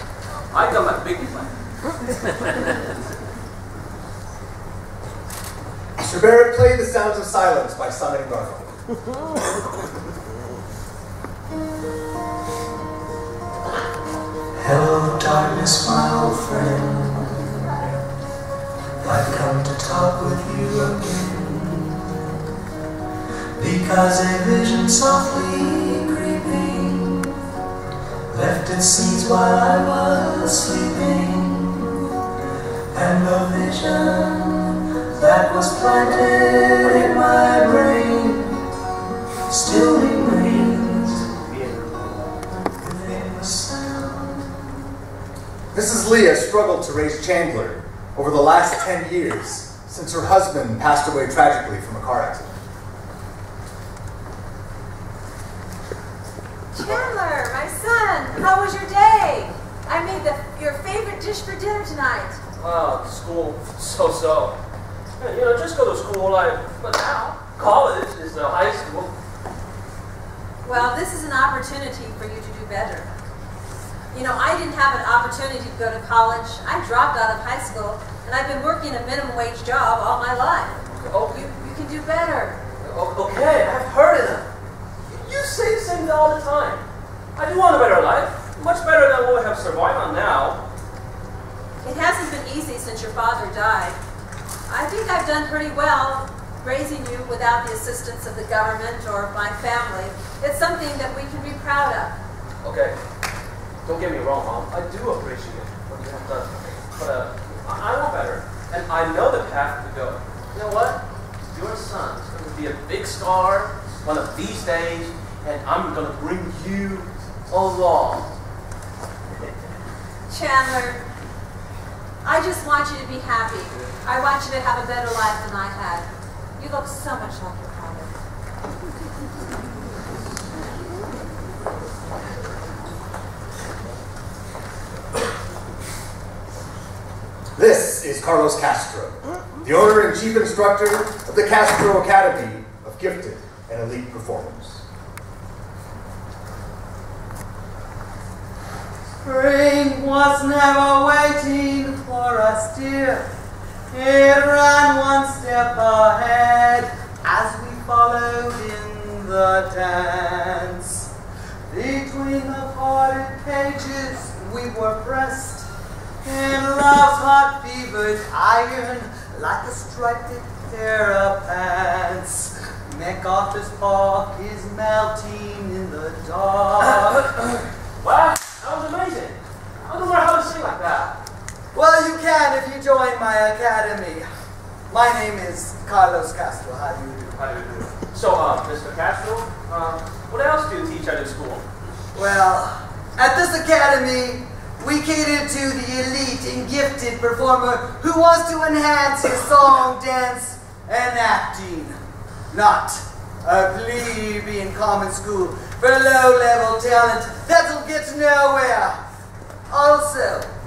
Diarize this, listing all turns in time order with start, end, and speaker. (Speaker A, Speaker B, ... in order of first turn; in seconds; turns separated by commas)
Speaker A: 0.5-3.0, Speaker B: 6.0-8.7, Speaker C: 14.6-17.2, Speaker C: 19.0-19.9, Speaker C: 20.5-21.9, Speaker C: 23.6-24.4, Speaker C: 25.0-27.3, Speaker C: 28.3-32.0, Speaker C: 32.9-38.5, Speaker C: 39.5-41.2, Speaker C: 42.8-44.7, Speaker B: 45.7-52.6, Speaker D: 56.7-62.4, Speaker A: 62.6-64.6, Speaker A: 65.2-69.1, Speaker D: 70.6-73.1, Speaker D: 74.1-80.8, Speaker A: 80.9-81.5, Speaker D: 81.3-82.6, Speaker A: 82.8-84.5, Speaker A: 85.1-86.8, Speaker A: 87.4-90.6, Speaker D: 91.8-94.0, Speaker D: 94.7-102.2, Speaker A: 102.6-103.0, Speaker A: 103.8-118.3, Speaker D: 120.3-121.0, Speaker D: 122.2-128.1, Speaker B: 137.6-144.8, Speaker E: 149.2-153.2, Speaker E: 153.9-161.1, Speaker E: 161.7-165.7, Speaker E: 166.2-177.2, Speaker A: 176.8-181.2, Speaker E: 181.7-184.3, Speaker E: 184.9-187.4, Speaker A: 187.3-191.7, Speaker E: 192.1-202.0, Speaker E: 202.5-208.9, Speaker E: 209.7-210.5